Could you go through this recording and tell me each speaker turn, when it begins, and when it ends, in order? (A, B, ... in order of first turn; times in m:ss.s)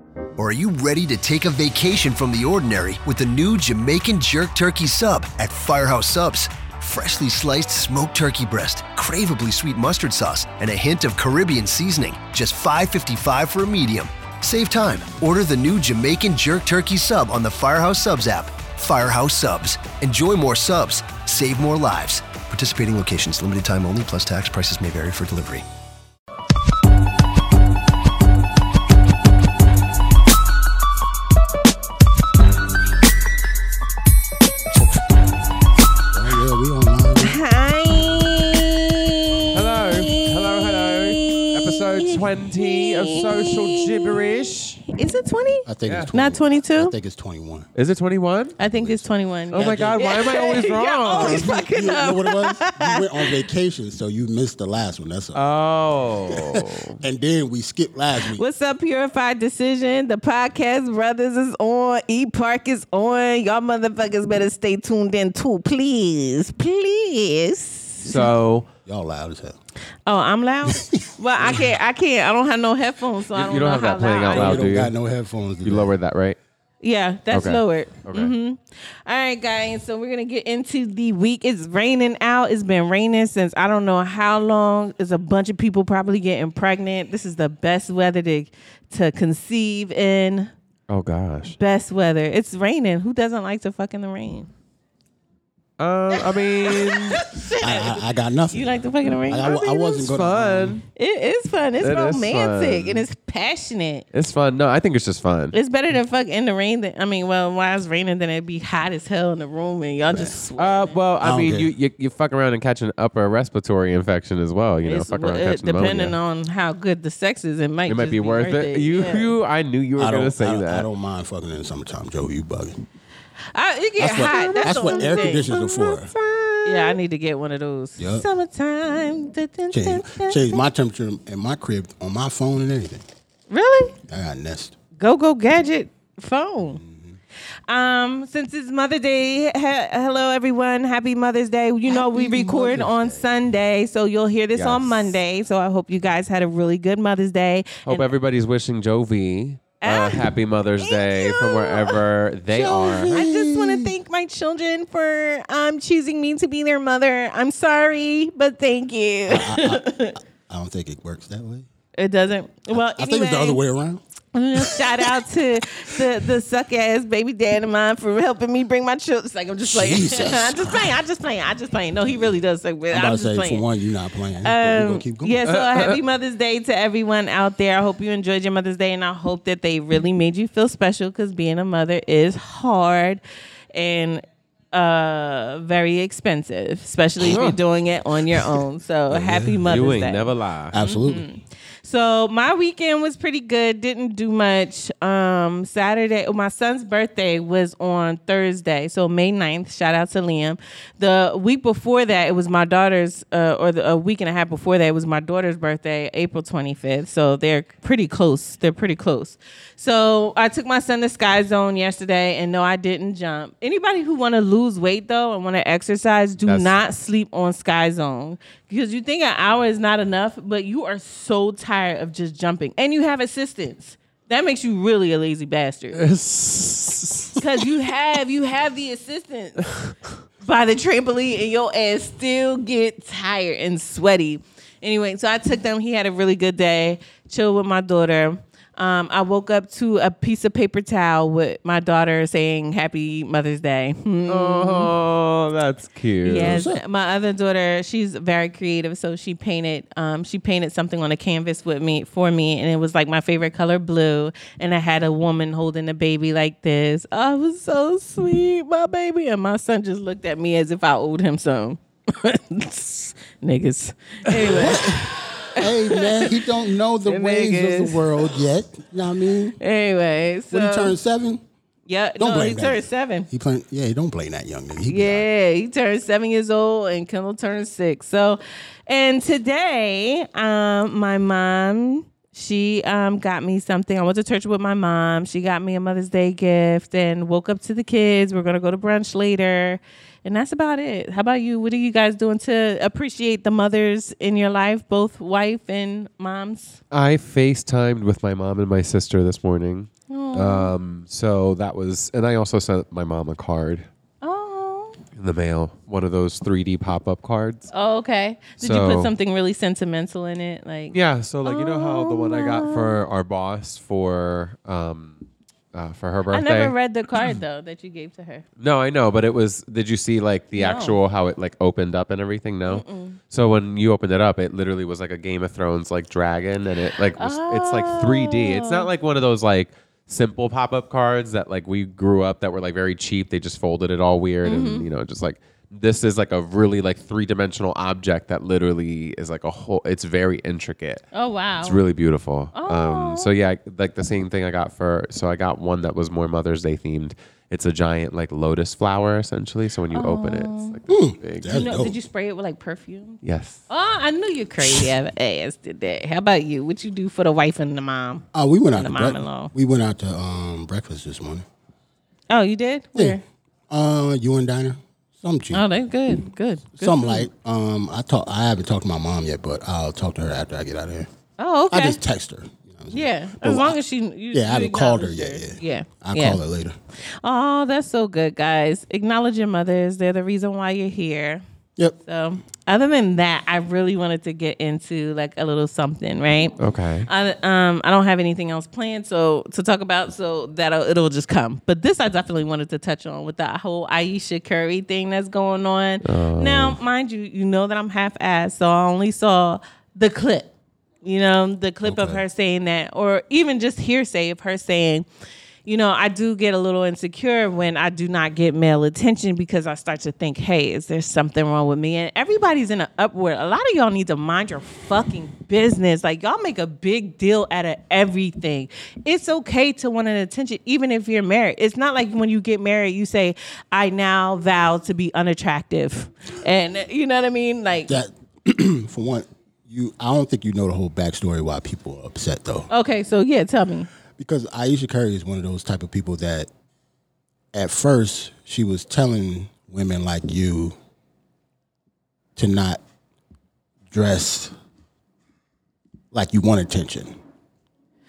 0:00.4-0:25.6 A
0:36.1-0:37.4 B
0:37.2-0:46.9 C
0:39.5-0:44.8 D
0:45.6-0:47.7 B
0:45.8-0:46.1 D
0:47.7-0:48.6 D
0:48.6-0:53.4 C
0:48.7-0:50.1 B
0:49.5-0:51.5 D
0:51.1-0:55.4 B
0:55.3-0:57.0 D
0:56.3-0:58.4 B
0:58.3-1:08.3 C
1:08.0-1:08.7 D
1:08.8-1:09.6 B
1:10.0-1:14.7 C
1:10.7-1:11.6 B
1:13.3-1:14.9 D
1:14.2-1:16.0 B
1:15.6-1:16.4 D
1:16.8-1:30.5 C
1:17.3-1:18.3 D
1:30.9-1:31.6 D
1:31.5-1:34.5 C
1:35.8-1:37.2 D
1:36.2-1:40.0 C
1:37.6-1:40.8 B
1:40.0-1:40.8 D
1:41.0-1:44.0 C
1:41.8-1:43.0 D
1:44.1-1:45.5 D
1:45.5-1:51.0 C
1:50.1-1:50.4 B
1:50.6-1:56.2 D
1:51.2-1:51.7 B
1:54.8-1:59.3 C
1:57.9-2:00.8 D
2:00.0-2:02.8 B
2:03.5-2:05.9 C
2:04.0-2:06.1 B
2:04.2-2:07.0 D
2:06.6-2:10.6 C
2:08.0-2:08.2 B
2:09.7-2:13.0 B
2:13.5-2:14.0 C
2:14.1-2:14.8 B
2:15.0-2:16.8 C
2:16.7-2:17.2 B
2:17.7-2:28.1 C
2:21.9-2:23.2 B
2:24.5-2:25.1 D
2:27.8-2:33.2 D
2:29.8-2:30.3 C
2:30.8-2:32.0 C
2:32.5-2:33.9 B
2:33.1-2:40.2 C
2:39.3-2:41.6 B
2:42.0-2:43.6 C
2:42.7-2:44.0 B
2:44.3-2:53.6 C
2:44.6-2:45.2 B
2:45.8-2:46.1 B
2:49.6-2:51.0 B
2:52.9-2:55.4 B
2:54.4-3:03.2 C
2:55.5-2:56.0 D
3:03.7-3:46.0 C
3:07.2-3:07.6 D
3:09.1-3:09.7 B
3:09.6-3:10.7 D
3:10.7-3:11.2 B
3:36.4-3:36.7 D
3:45.9-3:47.6 D
3:47.4-3:49.7 C
3:50.4-4:04.9 C
4:04.3-4:06.6 D
4:06.2-4:26.4 C
4:06.4-4:06.8 B
4:24.4-4:29.6 B
4:27.0-4:28.3 C
4:29.6-4:31.0 C
4:30.5-4:31.4 B
4:31.9-4:33.3 C
4:32.2-4:35.2 B
4:34.9-4:56.8 C
4:56.9-5:03.9 D
5:00.1-5:00.7 C
5:04.2-5:05.0 C
5:05.2-5:07.7 D
5:07.7-5:12.9 C
5:08.6-5:09.1 D
5:10.9-5:16.7 D
5:16.3-5:18.4 C
5:18.6-5:41.0 D
5:20.6-5:21.0 C
5:22.7-5:23.2 C
5:27.2-5:28.9 C
5:34.4-5:34.9 C
5:41.1-5:41.8 C
5:41.6-5:51.6 D
5:42.5-5:43.3 C
5:49.9-5:50.8 C
5:50.9-5:52.0 B
5:51.4-5:59.5 C
5:53.2-5:53.6 D
5:58.3-6:01.4 B
6:02.3-6:03.2 C
6:03.7-6:05.6 B
6:05.5-6:07.3 C
6:06.8-6:11.1 B
6:11.4-6:12.0 C
6:11.7-6:13.8 B
6:12.9-6:16.4 C
6:14.3-6:16.8 B
6:17.2-6:21.4 C
6:22.0-6:26.5 C
6:26.6-6:27.1 D
6:27.1-6:40.5 C
6:36.0-6:36.8 D
6:41.0-6:45.0 C
6:41.8-6:42.2 B
6:45.6-7:08.0 C
7:07.9-7:12.7 B
7:12.7-7:13.9 C
7:14.1-7:16.5 B
7:17.5-7:20.7 B
7:22.4-7:22.8 B
7:23.9-7:24.5 B
7:26.1-7:27.1 B